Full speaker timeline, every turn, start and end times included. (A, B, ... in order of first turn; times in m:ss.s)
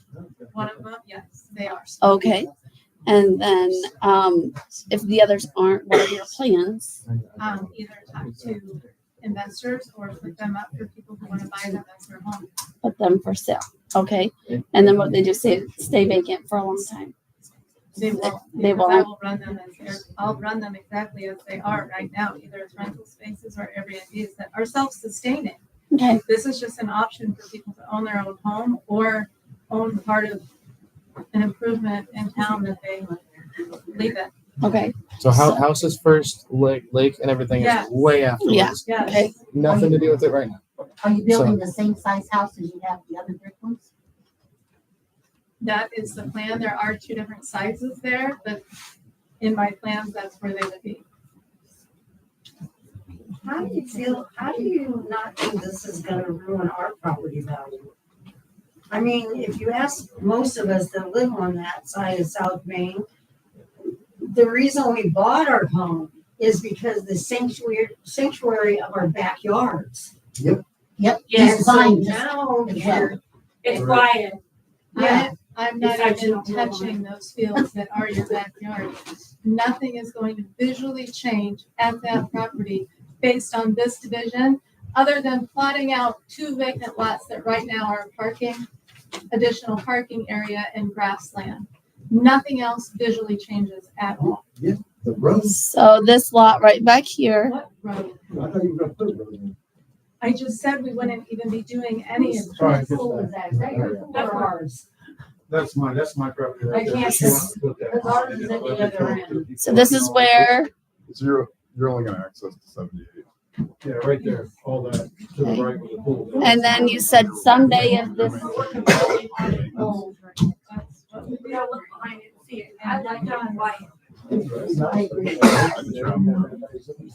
0:00.5-0:02.2 A
0:02.0-0:02.5 B
0:03.0-0:07.0 B
0:07.0-0:07.7 C
0:07.4-0:12.5 A
0:08.3-0:08.8 C
0:12.8-0:17.1 B
0:14.5-0:15.3 C
0:17.9-0:25.6 A
0:18.2-0:19.1 B
0:25.9-0:26.2 B
0:26.2-0:30.4 A
0:31.3-0:34.3 A
0:34.6-0:35.6 B
0:35.2-0:41.6 C
0:37.6-0:38.1 A
0:38.4-0:39.4 B
0:38.8-0:39.3 A
0:39.6-0:40.2 D
0:41.0-0:43.8 D
0:45.6-0:48.6 A
0:49.4-0:51.0 A
0:53.4-0:57.9 E
0:58.9-1:03.0 E
1:04.2-1:10.1 E
1:11.0-1:13.2 D
1:11.3-1:12.0 F
1:11.4-1:13.2 E
1:13.6-1:14.4 F
1:13.7-1:14.0 E
1:14.9-1:28.7 A
1:15.0-1:15.3 E
1:15.8-1:17.0 F
1:29.3-1:34.4 A
1:35.4-1:37.5 B
1:37.4-1:38.4 A
1:40.2-1:43.0 A
1:42.3-1:44.6 D
1:42.4-1:44.5 B
1:42.6-1:43.3 G
1:44.0-1:44.4 E
1:44.1-1:44.5 F
1:45.5-1:50.1 G
1:46.7-1:50.7 B
1:47.1-1:49.2 E
1:47.9-1:49.4 D
1:49.6-1:50.0 C
1:51.1-1:53.3 H
1:53.8-1:58.3 G
1:55.4-1:55.8 B
1:55.8-1:56.7 C
1:56.4-1:58.5 B
1:57.1-1:59.9 H
1:58.3-2:00.0 F
1:59.7-2:02.1 A
2:01.3-2:03.9 F
2:02.7-2:03.8 A
2:04.3-2:06.0 D
2:04.5-2:05.4 G
2:05.4-2:06.5 H
2:05.8-2:06.5 C
2:06.0-2:06.7 G